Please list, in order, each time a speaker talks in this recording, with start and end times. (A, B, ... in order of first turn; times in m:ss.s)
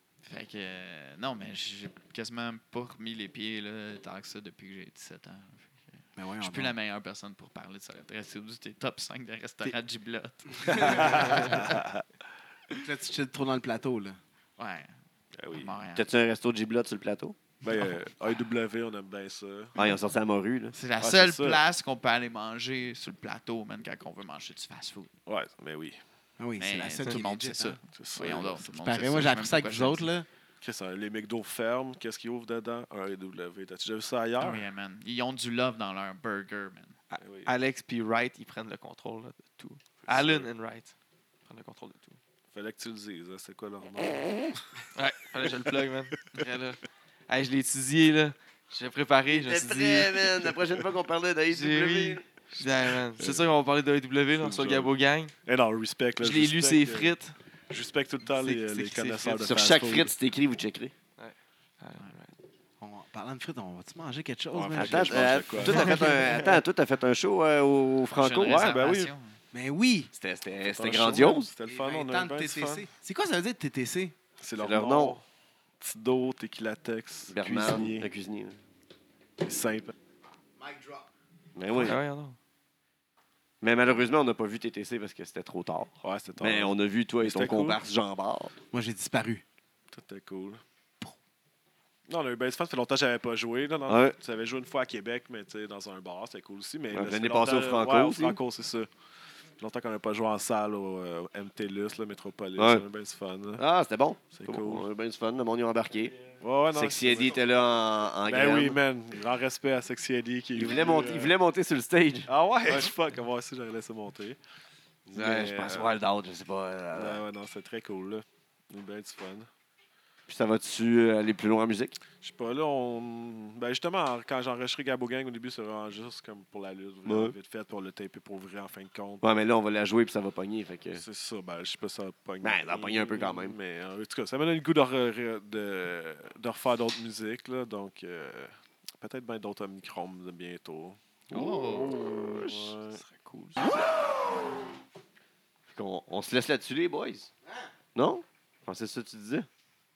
0:00.2-0:11.9 A
0:06.2-0:06.7 B
0:10.6-0:11.6 B
0:10.7-0:11.7 C
0:12.8-0:14.2 B
0:14.6-0:14.9 A
0:15.3-0:15.7 C
0:15.5-0:16.1 A
0:15.9-0:17.4 D
0:17.6-0:19.8 C
0:19.8-0:20.7 D
0:20.7-0:25.1 A
0:21.0-0:21.6 C
0:25.2-0:26.0 C
0:26.4-0:30.3 B
0:26.6-0:30.1 A
0:27.9-0:28.6 C
0:30.6-0:34.6 C
0:34.4-0:37.0 A
0:37.1-0:40.9 E
0:37.2-0:37.5 C
0:40.1-0:40.5 C
0:41.4-0:42.2 E
0:42.5-0:44.6 C
0:44.9-0:50.2 E
0:49.3-0:52.2 D
0:51.5-0:55.3 E
0:53.2-0:53.4 C
0:54.3-0:54.9 C
0:55.4-0:57.1 C
0:56.2-0:57.4 E
0:57.7-1:00.1 C
0:58.2-0:59.5 E
0:59.4-1:00.9 D
1:01.2-1:02.3 E
1:02.8-1:05.6 B
1:04.5-1:09.1 D
1:04.7-1:06.0 C
1:05.7-1:06.6 E
1:08.0-1:09.4 A
1:09.5-1:10.1 B
1:10.1-1:11.5 D
1:10.6-1:12.9 C
1:11.6-1:14.1 B
1:14.4-1:15.2 C
1:14.6-1:15.2 D
1:15.8-1:18.1 C
1:17.3-1:18.6 D
1:19.4-1:19.9 C
1:20.6-1:21.1 B
1:21.5-1:22.0 D
1:21.7-1:22.4 E
1:23.6-1:28.5 D
1:26.0-1:27.8 C
1:28.7-1:29.4 B
1:29.9-1:30.6 C
1:32.1-1:38.9 C
1:33.9-1:34.2 D
1:36.9-1:38.4 D
1:39.6-1:43.6 C
1:42.6-1:42.8 D
1:43.6-1:46.2 D
1:44.3-1:44.8 C
1:46.4-1:47.4 C
1:46.7-1:48.8 D
1:48.2-1:51.3 C
1:50.5-1:52.9 D
1:52.3-1:54.4 C
1:55.1-1:55.9 C
1:55.1-1:57.2 D
1:56.9-1:59.5 C
2:00.3-2:02.0 D
2:02.2-2:09.2 C
2:07.0-2:07.3 D
2:09.2-2:11.0 D
2:10.9-2:23.0 C
2:12.4-2:13.6 D
2:21.3-2:22.0 A
2:22.4-2:23.7 E
2:25.7-2:27.3 D
2:27.4-2:27.7 B
2:27.9-2:29.5 D